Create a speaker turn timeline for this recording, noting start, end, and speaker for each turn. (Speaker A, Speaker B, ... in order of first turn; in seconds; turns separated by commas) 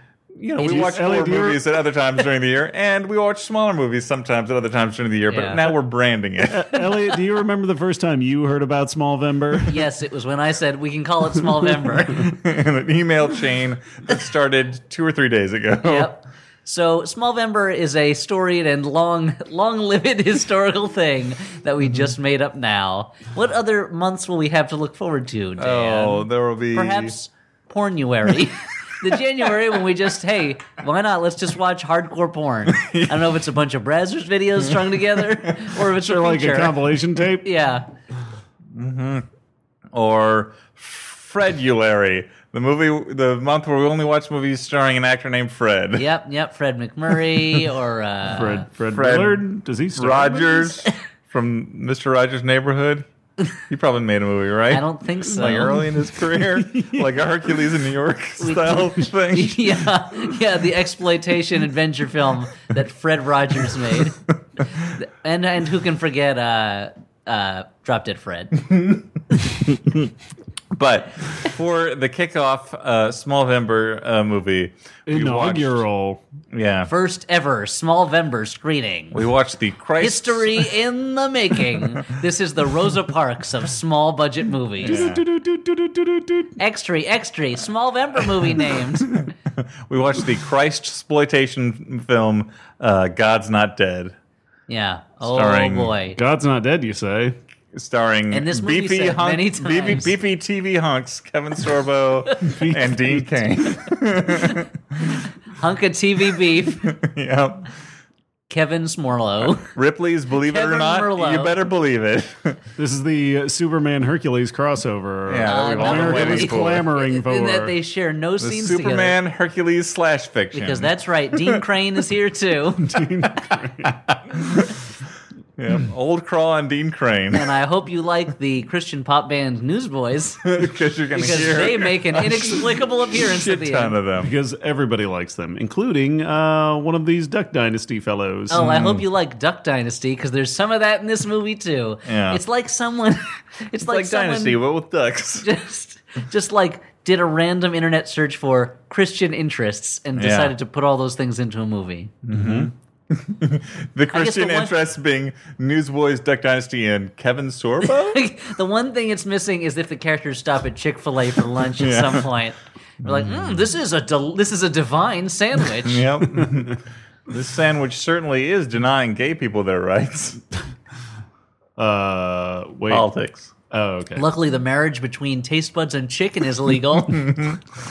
Speaker A: 0.4-6.8, Speaker B: 0.6-1.6, Speaker C: 5.3-5.7, Speaker B: 6.5-9.9, Speaker C: 9.7-12.4, Speaker A: 12.2-16.1, Speaker C: 15.8-36.8, Speaker A: 25.6-27.1, Speaker A: 32.7-33.3, Speaker B: 36.0-37.5, Speaker C: 37.4-37.9, Speaker A: 38.7-39.3, Speaker A: 39.9-46.1, Speaker C: 46.0-48.7, Speaker B: 48.3-50.9, Speaker A: 48.9-53.1, Speaker A: 53.7-59.9, Speaker C: 54.7-55.8, Speaker B: 56.6-57.0, Speaker C: 58.4-64.2, Speaker C: 64.7-68.7, Speaker A: 69.7-70.1, Speaker A: 70.7-75.8, Speaker B: 75.1-76.2, Speaker A: 76.5-76.9, Speaker C: 76.9-79.2, Speaker A: 79.1-80.7, Speaker C: 80.0-85.1, Speaker B: 84.8-86.5, Speaker A: 84.8-85.2, Speaker C: 86.6-89.3, Speaker A: 89.2-94.2, Speaker C: 94.7-96.2, Speaker A: 95.2-96.0, Speaker B: 96.1-97.4, Speaker A: 97.7-105.2, Speaker C: 98.3-100.1, Speaker B: 102.5-103.3, Speaker C: 104.3-106.9, Speaker A: 106.8-107.7, Speaker C: 108.5-109.7, Speaker A: 109.4-112.6, Speaker C: 110.4-111.5, Speaker B: 112.8-117.7, Speaker A: 115.3-116.9, Speaker C: 115.5-119.2, Speaker A: 118.4-121.6, Speaker C: 120.5-123.0, Speaker B: 122.8-123.9, Speaker A: 123.8-124.8, Speaker A: 125.6-127.5, Speaker C: 127.3-130.4, Speaker A: 130.4-134.3, Speaker C: 131.1-134.0, Speaker B: 134.2-138.6, Speaker C: 138.5-144.6, Speaker A: 138.5-139.0, Speaker A: 142.1-142.4, Speaker A: 143.8-145.5, Speaker C: 145.4-152.2, Speaker A: 150.2-150.5, Speaker A: 152.2-158.2, Speaker B: 152.3-152.7, Speaker C: 154.1-154.8, Speaker C: 157.8-166.1, Speaker A: 161.8-162.3, Speaker A: 163.0-163.6, Speaker A: 165.8-170.4, Speaker B: 171.8-173.1, Speaker A: 172.9-173.5, Speaker B: 173.7-174.3, Speaker C: 174.2-177.4, Speaker A: 177.0-177.7